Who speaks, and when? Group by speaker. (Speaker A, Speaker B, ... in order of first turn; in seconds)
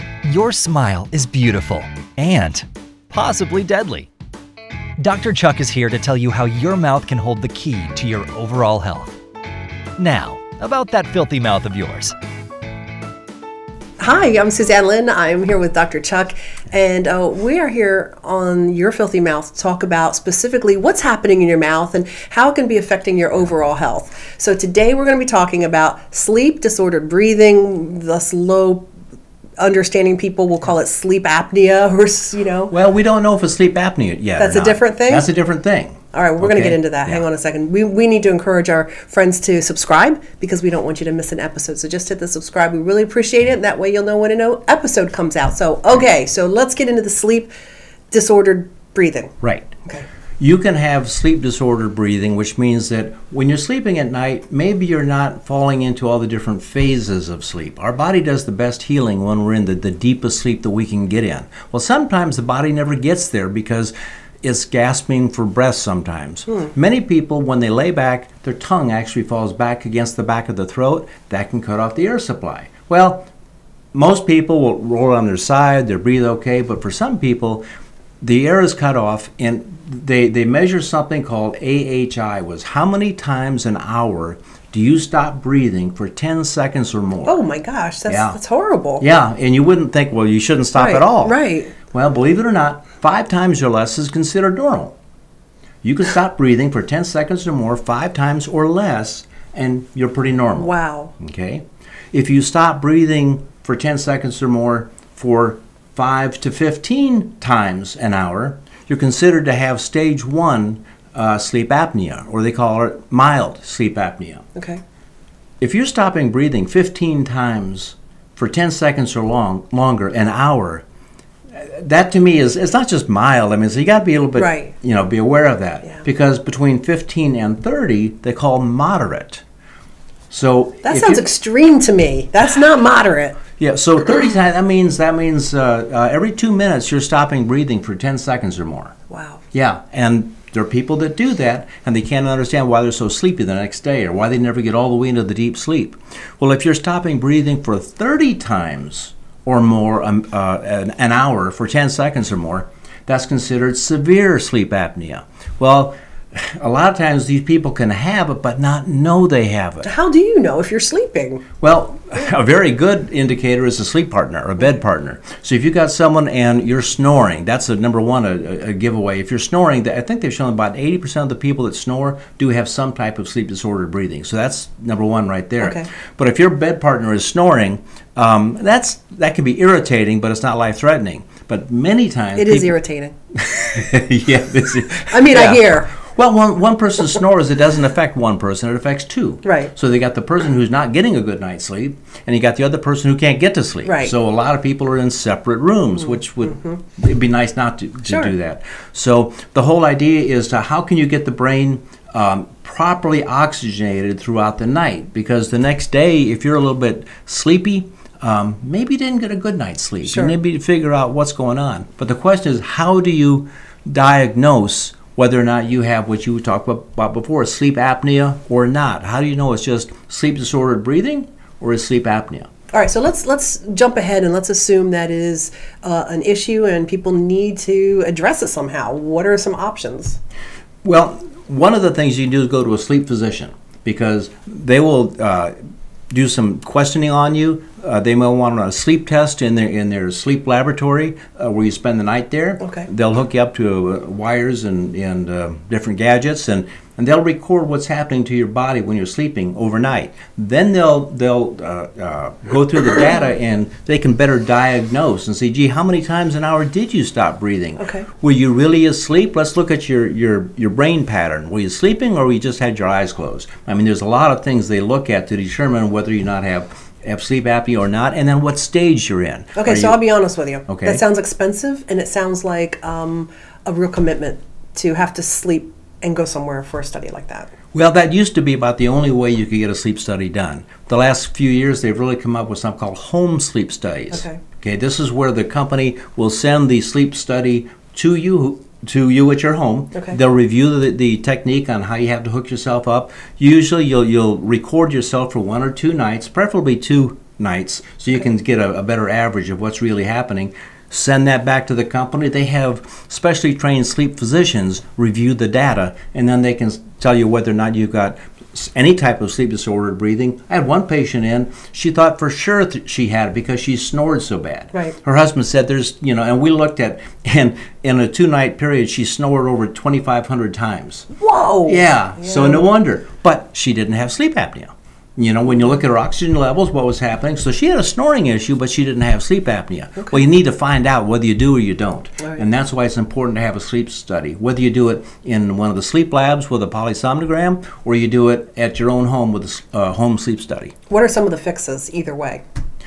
Speaker A: 0.3-4.1, 5.0-9.1, 10.0-12.2
Speaker B: 14.0-28.9, 29.6-32.7, 34.4-35.3, 36.1-47.5, 48.1-49.3, 87.2-89.0, 90.8-91.7, 100.5-101.1, 124.4-124.7, 130.8-133.4, 139.1-139.4, 159.8-161.5, 175.6-175.9, 182.4-183.2, 185.1-185.9, 189.4-189.7, 193.8-194.1, 210.1-210.3, 222.7-230.2, 257.8-258.1, 269.6-277.5, 284.1-284.4, 321.1-322.6, 340.9-342.4
Speaker C: 32.7-37.2, 49.4-49.8, 50.4-73.3, 73.9-77.6, 78.2-87.4, 88.1-88.3, 89.0-94.9, 95.8-114.4, 115.6-120.8, 121.6-129.4, 130.3-131.2, 133.6-138.9, 139.5-159.9, 161.6-182.8, 183.3-222.5, 230.8-235.5, 236.1-270.0, 270.7-271.0, 277.7-321.1, 321.6-340.7